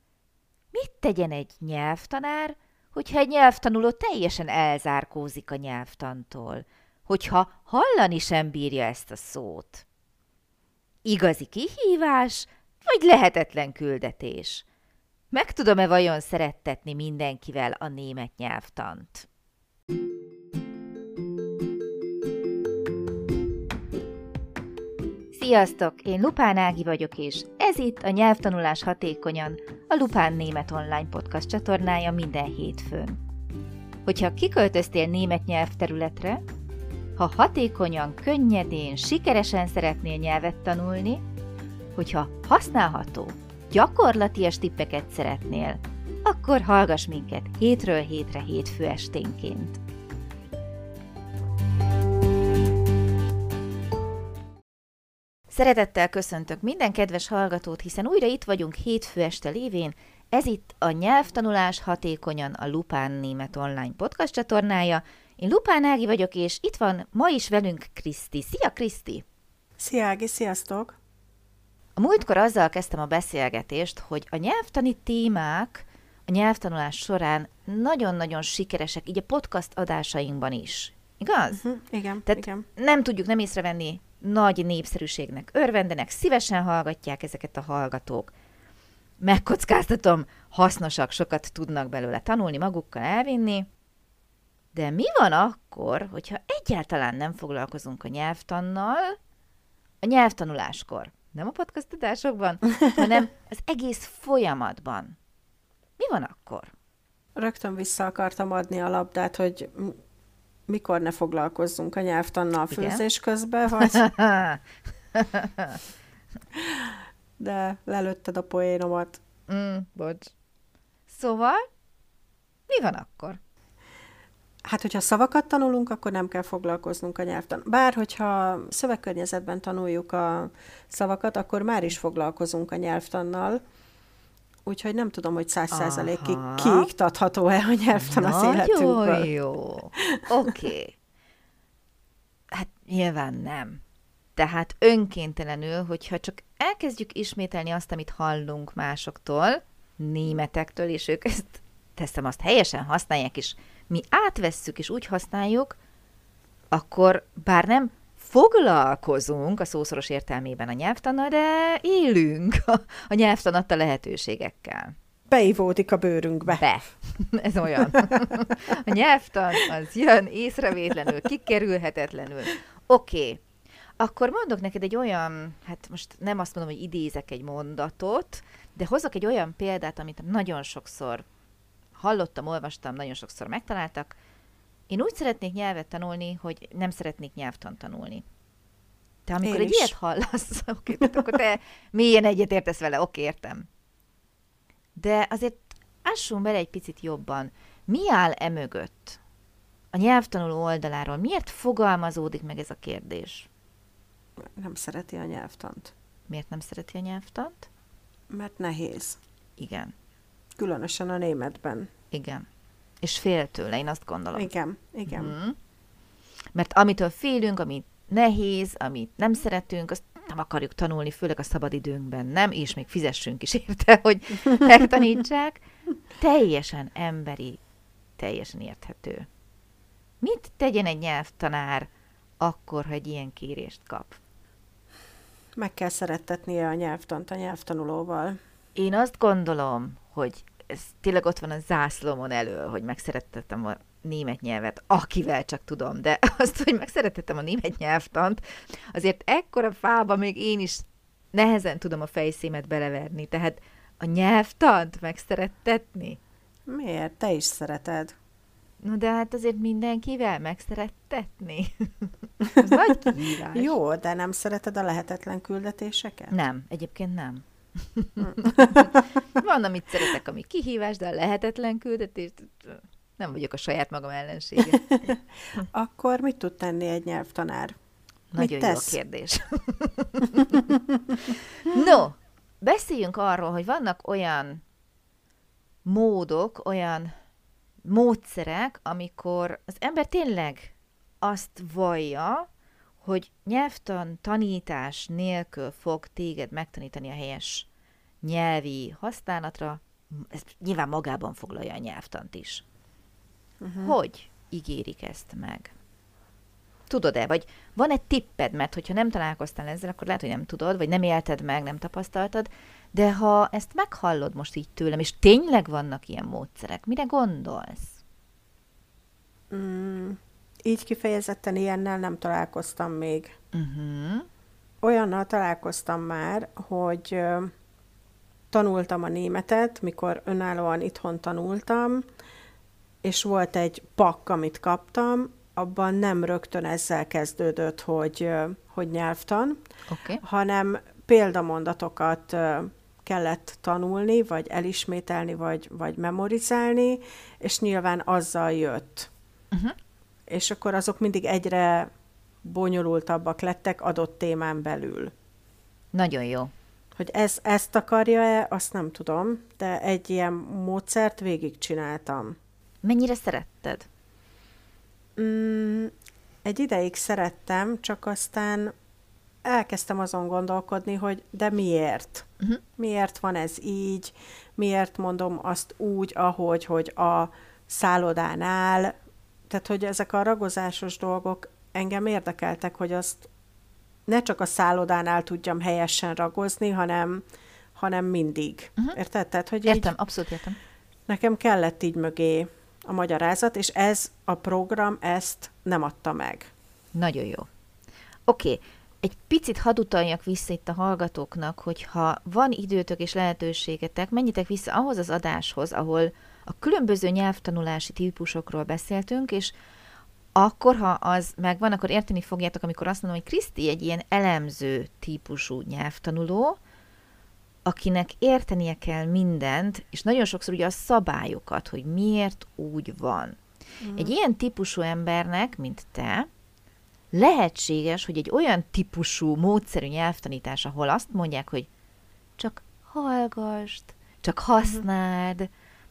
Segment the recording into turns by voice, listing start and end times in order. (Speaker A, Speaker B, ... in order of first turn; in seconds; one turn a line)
Speaker A: 0.7-9.8
Speaker A: 11.0-14.7
Speaker A: 15.3-19.3
Speaker A: 25.3-33.2
Speaker A: 34.0-36.4
Speaker A: 37.2-41.2
Speaker A: 42.0-49.8
Speaker A: 55.5-69.2
Speaker B: 69.8-71.0
Speaker A: 72.0-81.6
Speaker B: 81.5-82.7
Speaker A: 82.3-88.3
Speaker A: 89.2-93.7
Speaker A: 94.7-99.2
Speaker A: 100.0-105.2
Speaker A: 106.0-106.7
Speaker B: 107.4-110.0
Speaker B: 110.7-114.0
Speaker A: 112.7-113.0
Speaker A: 113.8-114.6
Speaker A: 115.1-115.8
Speaker B: 116.6-119.2
Speaker A: 119.5-120.3
Speaker A: 121.1-121.6
Speaker A: 122.7-123.4
Speaker B: 124.7-133.6
Speaker B: 134.7-139.3
Speaker A: 135.7-136.9
Speaker A: 138.0-140.9
Speaker B: 140.0-140.2
Speaker A: 142.5-143.8
Speaker A: 144.4-155.8
Speaker A: 156.7-164.9
Speaker B: 165.3-166.7
Speaker A: 166.5-173.4
Speaker B: 167.9-168.3
Speaker A: 174.0-181.3
Speaker A: 181.9-184.2
Speaker A: 184.9-188.2
Speaker A: 189.3-193.7
Speaker B: 189.4-189.9
Speaker A: 195.0-199.2
Speaker A: 199.9-203.5
Speaker B: 204.4-205.9
Speaker A: 206.3-207.7
Speaker B: 208.3-209.2
Speaker A: 209.6-209.9
Speaker B: 210.6-211.9
Speaker A: 212.1-212.4
Speaker A: 213.0-214.5
Speaker B: 214.3-215.3
Speaker A: 215.1-215.6
Speaker A: 216.6-225.6
Speaker A: 226.2-227.6
Speaker A: 228.2-229.3
Speaker A: 230.2-231.9
Speaker A: 232.4-234.2
Speaker B: 235.6-238.4
Speaker A: 238.8-256.2
Speaker B: 256.7-258.1
Speaker A: 258.8-263.7
Speaker B: 262.6-266.3
Speaker A: 266.3-275.1
Speaker B: 268.2-269.1
Speaker B: 275.0-277.8
Speaker A: 278.3-280.6
Speaker B: 278.4-279.0
Speaker A: 281.6-284.6
Speaker A: 285.8-287.1
Speaker A: 287.8-292.5
Speaker A: 293.0-297.7
Speaker A: 298.2-302.6
Speaker B: 303.6-303.9
Speaker A: 303.8-305.7
Speaker A: 306.9-318.0
Speaker B: 319.5-323.3
Speaker A: 323.5-324.3
Speaker B: 324.8-327.5
Speaker B: 328.5-332.1
Speaker B: 333.0-339.6
Speaker A: 339.9-340.2
Speaker B: 340.2-349.1
Speaker B: 350.3-351.9
Speaker B: 352.4-355.1
Speaker A: 355.9-356.5
Speaker B: 357.0-362.4
Speaker A: 362.8-363.9
Speaker B: 365.2-365.9
Speaker B: 366.4-368.7
Speaker B: 369.4-378.9
Speaker B: 379.5-383.3
Speaker B: 384.1-387.2
Speaker B: 387.8-389.9
Speaker A: 389.7-390.6
Speaker B: 391.1-396.5
Speaker A: 396.9-397.5
Speaker A: 398.3-409.6
Speaker A: 410.4-416.6
Speaker A: 417.7-423.4
Speaker B: 423.8-424.1
Speaker A: 423.9-426.3
Speaker A: 427.1-431.7
Speaker A: 432.4-435.5